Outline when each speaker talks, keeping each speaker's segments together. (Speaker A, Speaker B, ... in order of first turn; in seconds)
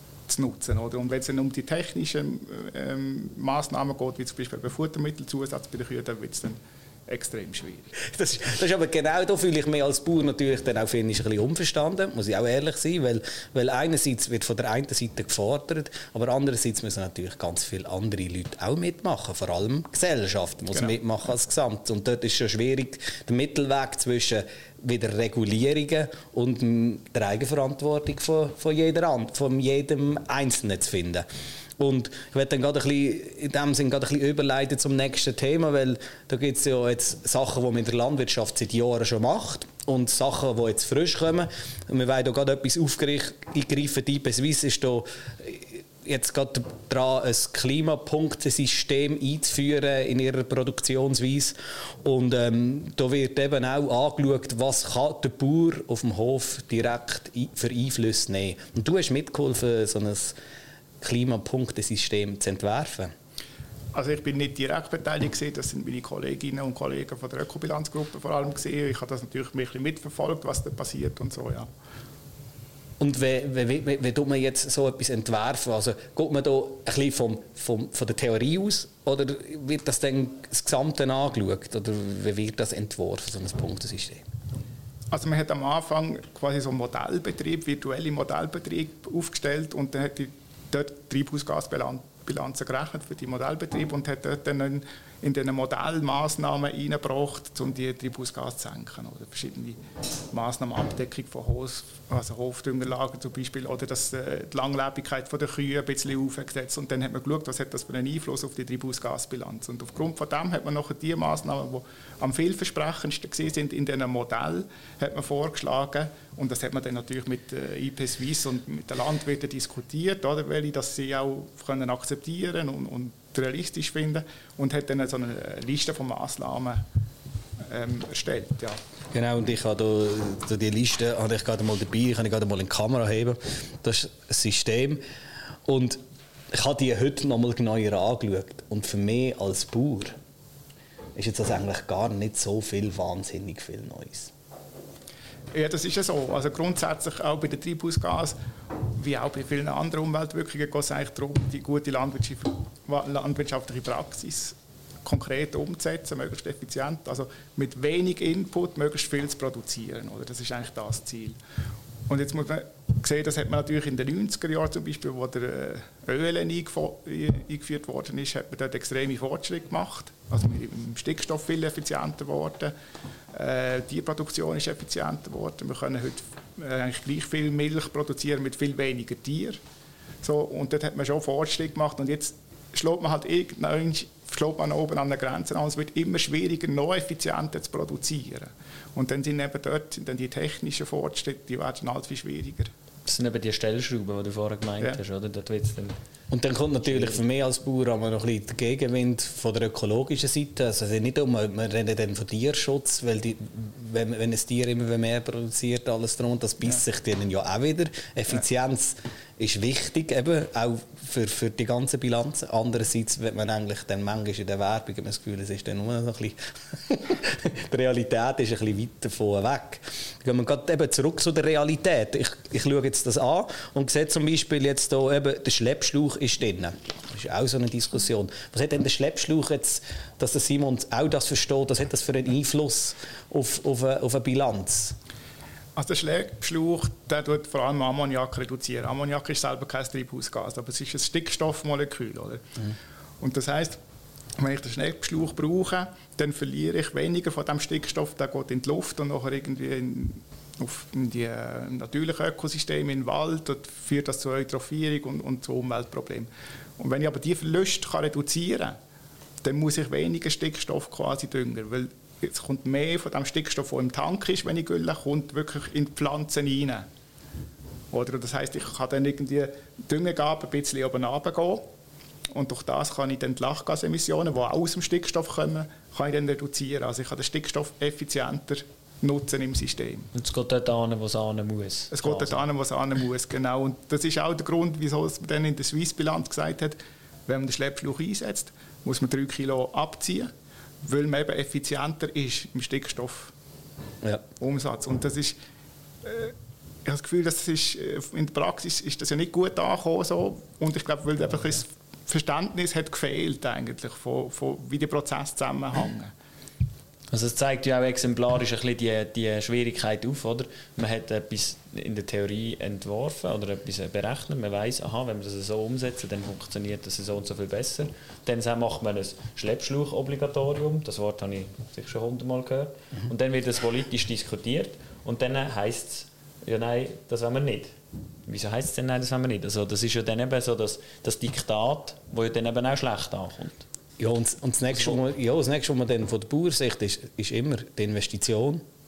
Speaker A: 0.3-7.9, 63.9-71.7, 85.1-99.8, 100.3-126.8, 127.7-128.8, 145.5-148.3, 148.9-161.4, 162.1-172.7, 173.3-179.6, 180.2-192.7, 235.8-242.6, 243.2-243.8, 244.4-258.8, 259.4-266.9, 267.9-271.7, 272.3-280.1, 281.9-290.3, 290.8-293.3, 294.4-295.4, 296.0-296.3, 296.8-306.1
Speaker B: 8.0-31.2, 31.8-60.3, 61.0-63.1, 73.0-84.2, 129.1-135.0, 135.7-136.0, 136.5-140.1, 141.2-144.3, 196.3-234.9, 334.0-338.6
Speaker C: 193.1-195.9, 196.8-197.2, 280.1-282.4, 307.1-327.7, 328.2-333.6